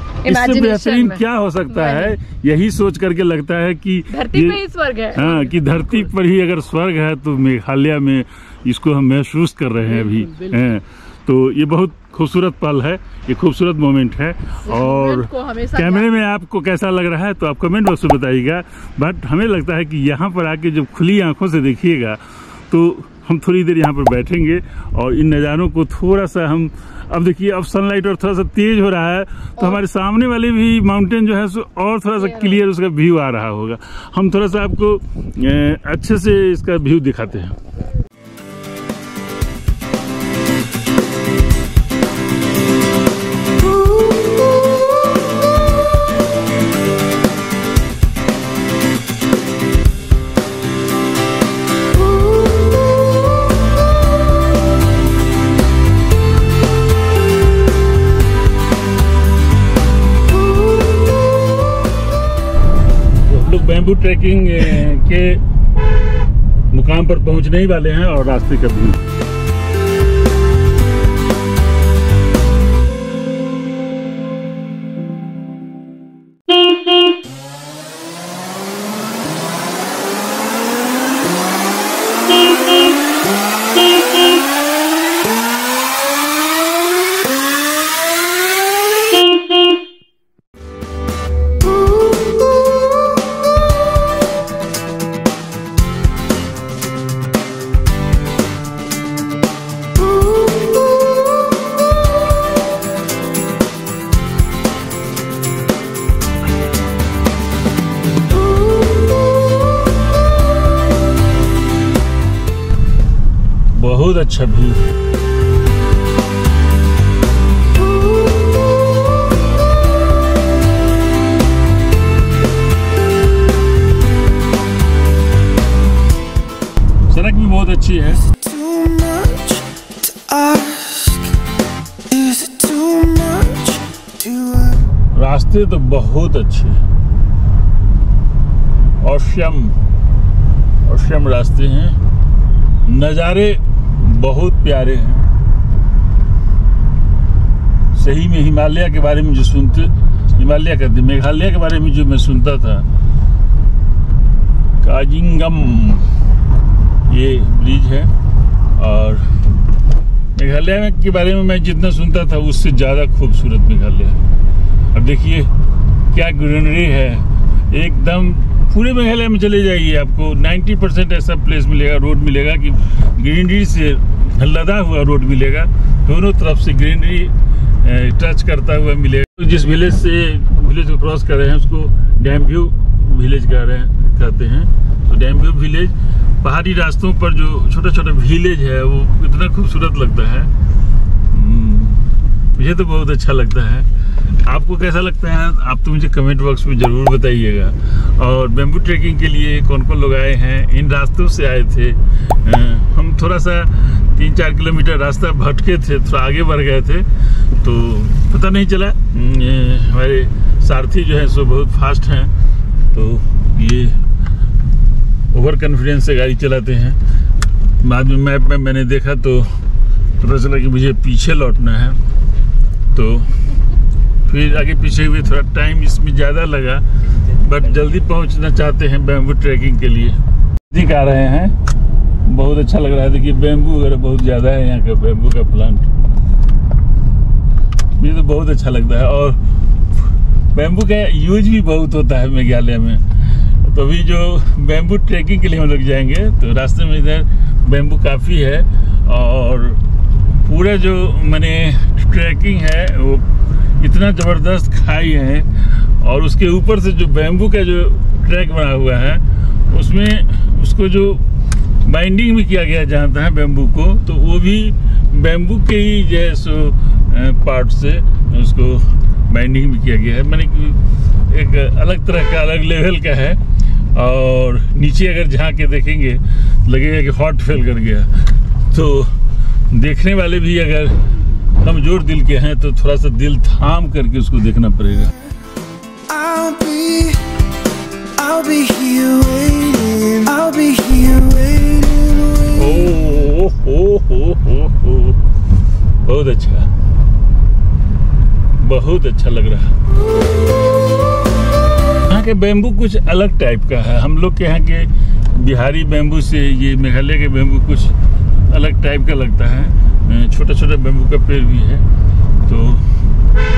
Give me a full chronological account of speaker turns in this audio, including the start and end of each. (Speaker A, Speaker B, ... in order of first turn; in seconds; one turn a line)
Speaker A: 0.2-2.2
Speaker B: 0.2-4.6
Speaker A: 4.1-5.8
Speaker B: 5.1-37.5
Speaker A: 14.8-15.8
Speaker C: 14.8-15.2
Speaker A: 32.2-32.6
Speaker B: 63.2-65.4
Speaker B: 66.7-69.0
Speaker B: 113.7-114.8
Speaker B: 127.1-128.3
Speaker C: 128.4-129.6
Speaker C: 130.2-131.1
Speaker C: 132.1-134.7
Speaker B: 135.1-136.8
Speaker B: 139.0-139.8
Speaker B: 140.8-142.0
Speaker B: 142.8-145.3
Speaker B: 147.9-152.9
Speaker B: 154.8-156.1
Speaker B: 157.1-158.1
Speaker B: 158.8-159.3
Speaker B: 160.3-164.2
Speaker B: 164.9-165.5
Speaker B: 166.1-190.5
Speaker B: 191.3-212.3
Speaker B: 212.9-214.0
Speaker B: 215.3-217.0
Speaker B: 217.8-219.5
Speaker B: 220.2-222.0
Speaker B: 222.9-223.4
Speaker B: 224.2-230.2
Speaker B: 230.7-231.5
Speaker B: 232.2-235.9
Speaker B: 238.0-239.4
Speaker B: 240.5-253.2
Speaker B: 253.8-261.2
Speaker B: 261.8-273.4
Speaker B: 273.9-279.1
Speaker B: 279.7-281.0
Speaker B: 281.6-285.1
Speaker C: 286.2-287.2
Speaker C: 288.2-292.0
Speaker B: 292.5-295.2
Speaker B: 296.0-296.7
Speaker B: 298.6-299.7
Speaker B: 302.1-307.9
Speaker B: 308.5-311.9
Speaker B: 312.4-312.9